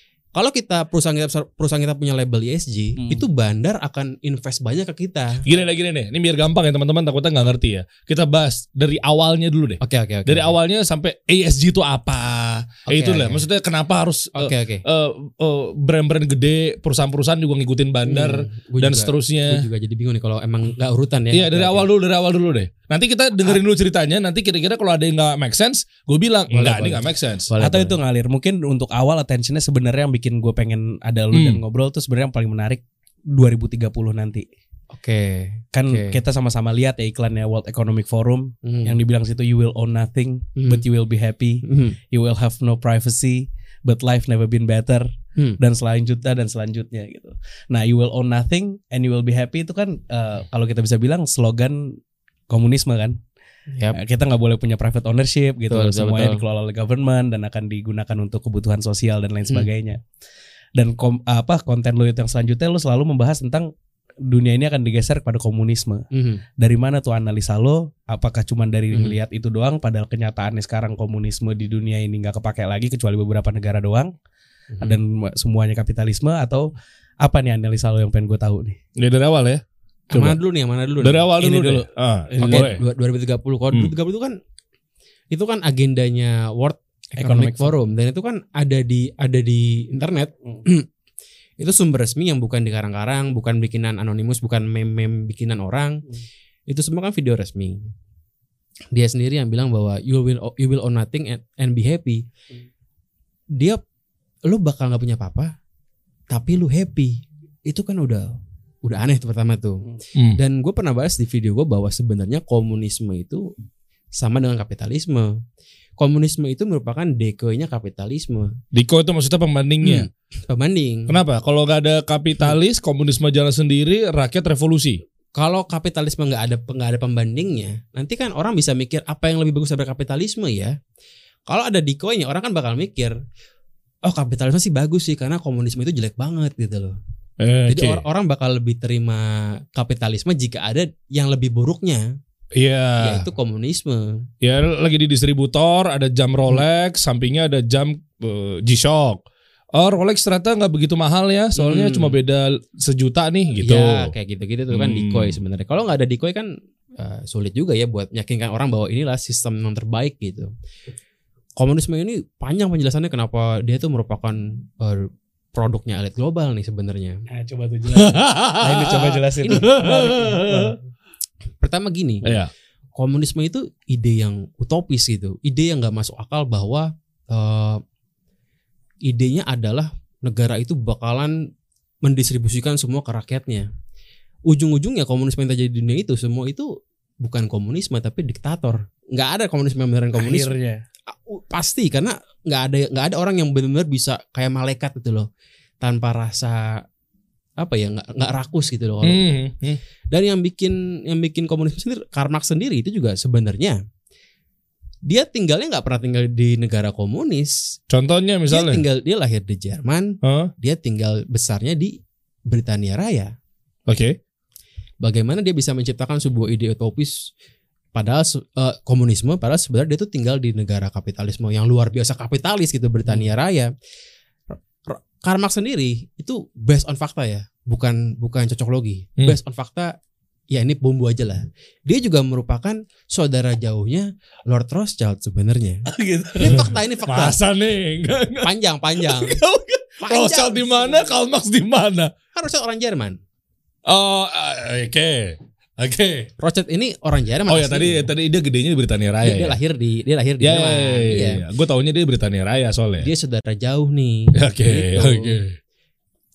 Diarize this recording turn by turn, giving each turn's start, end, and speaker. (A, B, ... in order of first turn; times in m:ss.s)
0:00.4-0:05.4 A
0:03.0-0:03.2 B
0:05.4-0:19.7 C
0:09.8-0:10.5 A
0:12.9-0:13.4 A
0:14.3-0:14.8 A
0:18.1-0:21.9 A
0:21.3-0:27.5 C
0:26.5-0:28.0 A
0:27.6-0:32.8 B
0:31.3-0:31.6 C
0:33.3-0:34.5 B
0:34.9-0:36.2 A
0:35.8-0:45.1 B
0:38.6-0:39.0 A
0:40.6-0:40.8 A
0:41.6-0:42.0 A
0:45.6-0:52.0 B
0:52.5-0:53.2 B
0:53.9-1:00.0 B
0:55.7-0:56.4 A
1:00.8-1:03.7 B
1:04.3-1:06.1 B
1:06.1-1:06.4 A
1:06.6-1:14.1 B
1:14.7-1:15.0 A
1:14.8-1:16.7 B
1:17.2-1:18.8 B
1:19.0-1:20.4 C
1:20.1-1:21.3 A
1:21.0-1:22.8 C
1:21.4-1:22.8 B
1:22.4-1:24.4 A
1:25.3-1:30.9 A
1:27.2-1:27.8 B
1:31.6-1:36.0 A
1:36.7-1:37.8 A
1:38.9-1:42.2 A
1:43.6-1:43.8 A
1:44.5-1:45.5 A
1:46.3-1:53.5 A
1:54.2-1:55.4 A
1:56.0-1:58.6 A
1:58.7-2:00.1 C
1:59.8-2:01.2 A
2:01.1-2:05.0 C
2:05.4-2:10.8 A
2:11.5-2:13.2 A
2:14.0-2:17.0 A
2:17.4-2:18.0 C
2:17.7-2:22.1 A
2:22.5-2:23.3 C
2:23.0-2:24.2 A
2:24.4-2:29.2 C
2:29.8-2:34.1 C
2:31.6-2:32.2 A
2:33.6-2:40.5 A
2:34.7-2:35.4 C
2:41.6-2:47.2 A
2:47.3-2:49.8 B
2:47.9-2:50.8 C
2:49.4-2:50.8 A
2:51.6-2:52.4 A
2:52.2-2:52.5 C
2:53.0-2:57.8 A
2:59.0-3:01.4 A
3:02.0-3:03.7 A
3:04.5-3:06.7 A
3:07.2-3:10.5 A
3:10.2-3:10.8 B
3:11.1-3:15.3 A
3:15.8-3:16.8 A
3:17.6-3:19.3 A
3:19.0-3:19.8 C
3:20.1-3:23.8 A
3:25.1-3:27.6 A
3:27.9-3:28.8 C
3:28.5-3:32.0 A
3:30.2-3:30.5 C
3:32.5-3:33.3 A
3:33.9-3:34.2 C
3:35.0-3:37.2 A
3:37.9-3:43.7 A
3:44.9-3:49.9 A
3:50.5-3:57.4 A
3:55.9-3:56.6 B
3:56.5-3:58.5 C
3:58.4-3:59.4 A
3:59.2-4:02.1 C
4:00.0-4:01.1 A
4:02.3-4:03.2 A
4:03.9-4:06.3 C
4:06.4-4:08.1 A
4:07.5-4:09.6 C
4:09.2-4:11.4 A
4:10.4-4:13.1 C
4:13.0-4:15.3 A
4:14.3-4:15.6 C